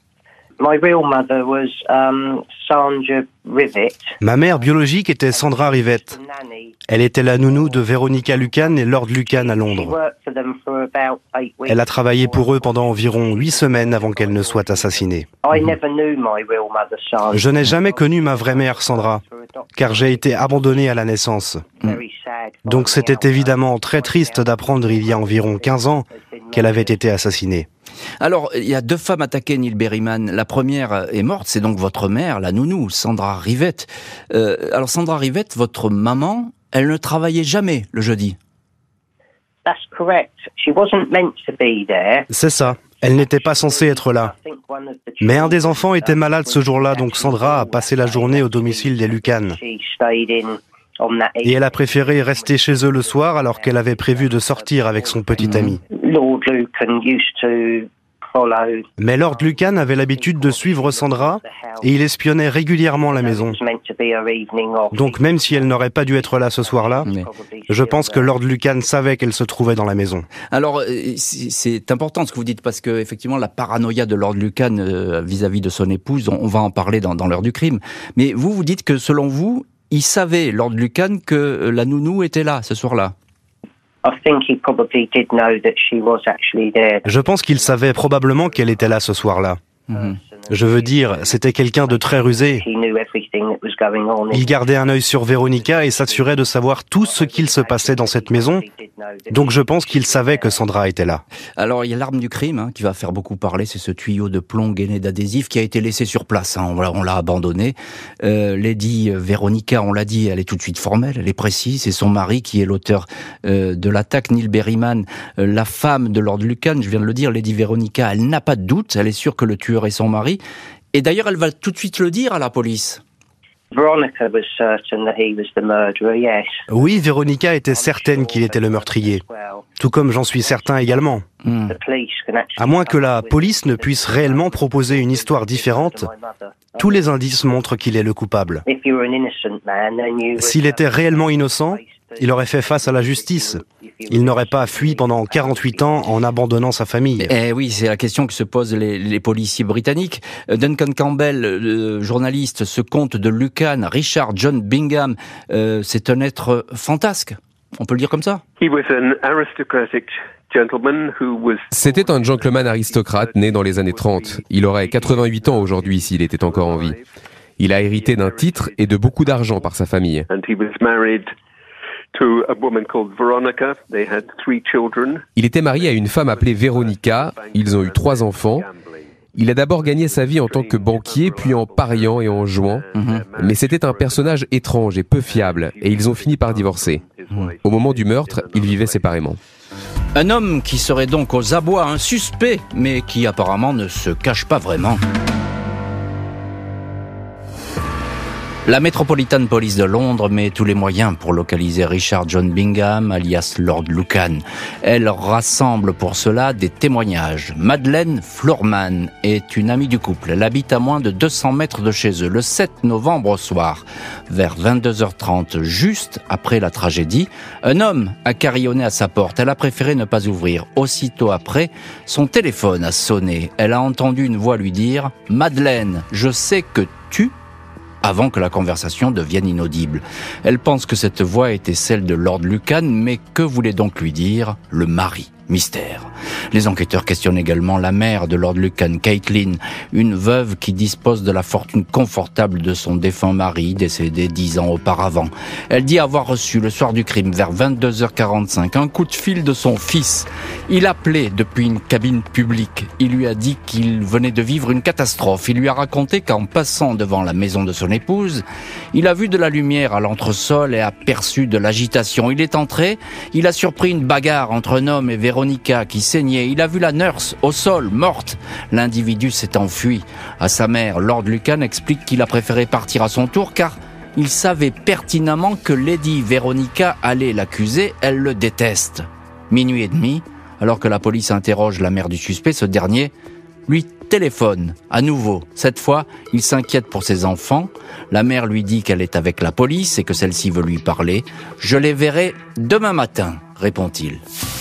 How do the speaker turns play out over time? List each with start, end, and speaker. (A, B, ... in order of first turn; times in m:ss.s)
0:00.6-0:21.0 A
0:04.2-0:06.2 B
0:06.9-0:10.0 B
0:11.7-0:15.3 B
0:17.3-0:19.2 B
0:19.8-0:21.7 B
0:21.8-0:27.4 A
0:22.7-0:27.7 B
0:28.2-0:38.4 C
0:39.6-1:02.0 A
0:42.3-0:44.3 B
0:45.2-0:49.6 B
0:51.4-0:55.8 B
0:55.4-0:55.8 C
0:59.0-1:03.6 B
1:03.0-1:08.4 A
1:04.9-1:07.1 B
1:07.7-1:10.3 B
1:10.5-1:23.2 C
1:24.0-1:29.4 A
1:27.0-1:29.6 B
1:29.9-1:30.2 C
1:29.9-1:41.0 A
1:30.5-1:32.6 B
1:34.3-1:38.6 B
1:39.3-1:41.2 B
1:41.6-2:00.4 C
2:00.9-2:03.0 C
2:03.7-2:17.6 A
2:06.7-2:09.2 B
2:09.8-2:11.2 B
2:11.4-2:11.7 C
2:12.6-2:16.1 B
2:16.8-2:18.6 B
2:18.6-2:26.7 A
2:20.4-2:27.3 B
2:27.2-2:38.4 C
2:38.6-2:47.1 D
2:41.7-2:47.0 E
2:47.6-2:50.3 E
2:47.8-2:49.7 D
2:50.3-2:51.3 D
2:52.1-2:59.1 D
2:55.4-2:58.7 E
2:59.4-3:07.0 E
2:59.8-3:04.5 D
3:03.0-3:03.2 C
3:05.2-3:09.2 D
3:07.6-3:09.4 E
3:10.1-3:15.0 C
3:18.7-3:47.4 C
3:48.0-4:43.1 C
4:43.7-4:54.2 C